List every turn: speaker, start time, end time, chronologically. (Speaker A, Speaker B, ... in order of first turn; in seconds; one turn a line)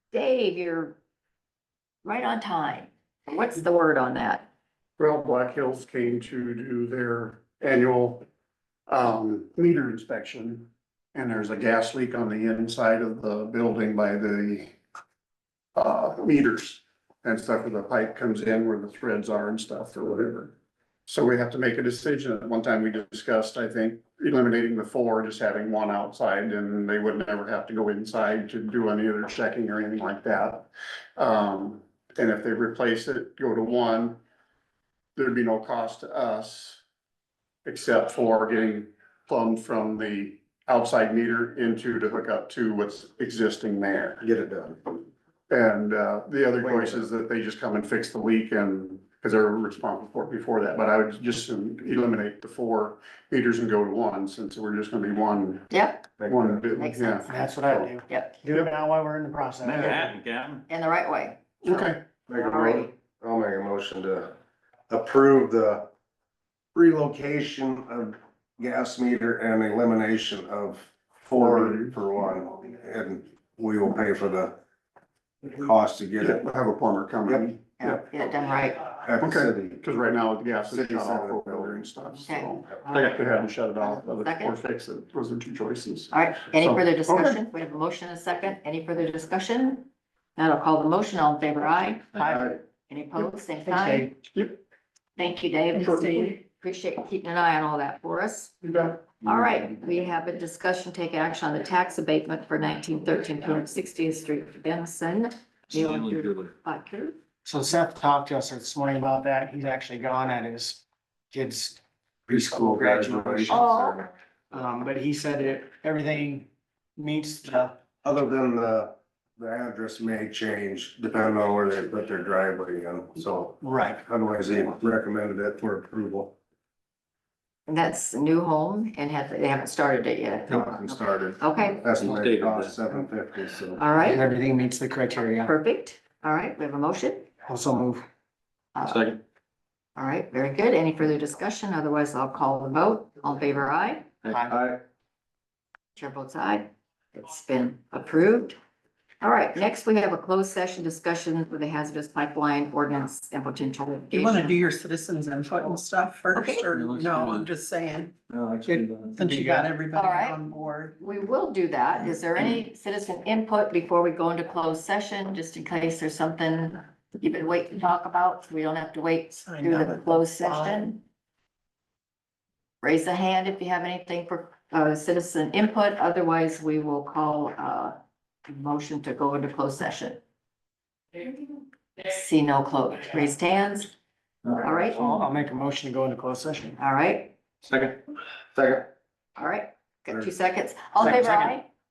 Speaker A: 0.1-0.9
Speaker A: 2.0-4.5
Speaker B: 5.0-8.2
Speaker B: 8.9-14.8
Speaker B: 15.7-20.5
Speaker B: 21.1-34.2
Speaker B: 35.1-36.8
Speaker B: 37.6-44.2
Speaker C: 44.2-44.8
Speaker B: 45.5-55.7
Speaker C: 46.6-47.1
Speaker A: 55.7-56.1
Speaker C: 56.2-56.6
Speaker B: 56.2-57.9
Speaker A: 56.7-58.4
Speaker D: 57.3-60.2
Speaker E: 59.6-60.6
Speaker A: 60.7-62.9
Speaker B: 61.6-62.0
Speaker C: 62.3-64.3
Speaker C: 64.9-65.9
Speaker C: 66.7-74.6
Speaker B: 71.4-71.9
Speaker C: 75.4-76.4
Speaker B: 76.2-78.0
Speaker A: 77.8-78.9
Speaker C: 79.0-79.8
Speaker B: 79.2-87.4
Speaker C: 80.7-81.9
Speaker A: 82.2-83.2
Speaker A: 83.8-84.5
Speaker A: 86.1-92.3
Speaker D: 92.1-92.5
Speaker A: 92.9-94.1
Speaker D: 93.7-94.1
Speaker B: 94.3-94.6
Speaker A: 95.2-98.5
Speaker B: 95.8-96.2
Speaker B: 98.6-99.0
Speaker A: 99.2-107.1
Speaker E: 105.7-106.5
Speaker D: 107.4-113.6
Speaker C: 112.3-114.0
Speaker A: 113.5-114.1
Speaker D: 114.5-117.8
Speaker C: 118.0-126.3
Speaker D: 123.6-124.0
Speaker A: 127.7-131.8
Speaker C: 130.5-133.8
Speaker E: 131.9-132.8
Speaker A: 133.8-134.2
Speaker D: 134.0-135.5
Speaker A: 135.4-137.3
Speaker D: 137.5-138.0
Speaker A: 138.7-139.0
Speaker E: 138.8-139.2
Speaker A: 139.9-144.1
Speaker D: 144.3-144.7
Speaker C: 144.5-144.8
Speaker A: 145.9-148.6
Speaker A: 149.2-154.6
Speaker F: 154.1-158.1
Speaker A: 156.3-156.7
Speaker E: 156.7-157.5
Speaker E: 158.3-159.2
Speaker D: 158.7-159.7
Speaker F: 159.1-160.9
Speaker A: 159.9-160.4
Speaker A: 161.0-171.0
Speaker F: 169.5-170.8
Speaker A: 172.8-177.9
Speaker A: 178.5-180.2
Speaker A: 181.2-181.4
Speaker A: 182.0-183.9
Speaker A: 184.6-185.0
Speaker D: 185.0-186.8
Speaker A: 186.8-187.3
Speaker E: 187.6-188.0
Speaker C: 188.5-188.9
Speaker A: 189.3-191.7
Speaker D: 191.0-191.5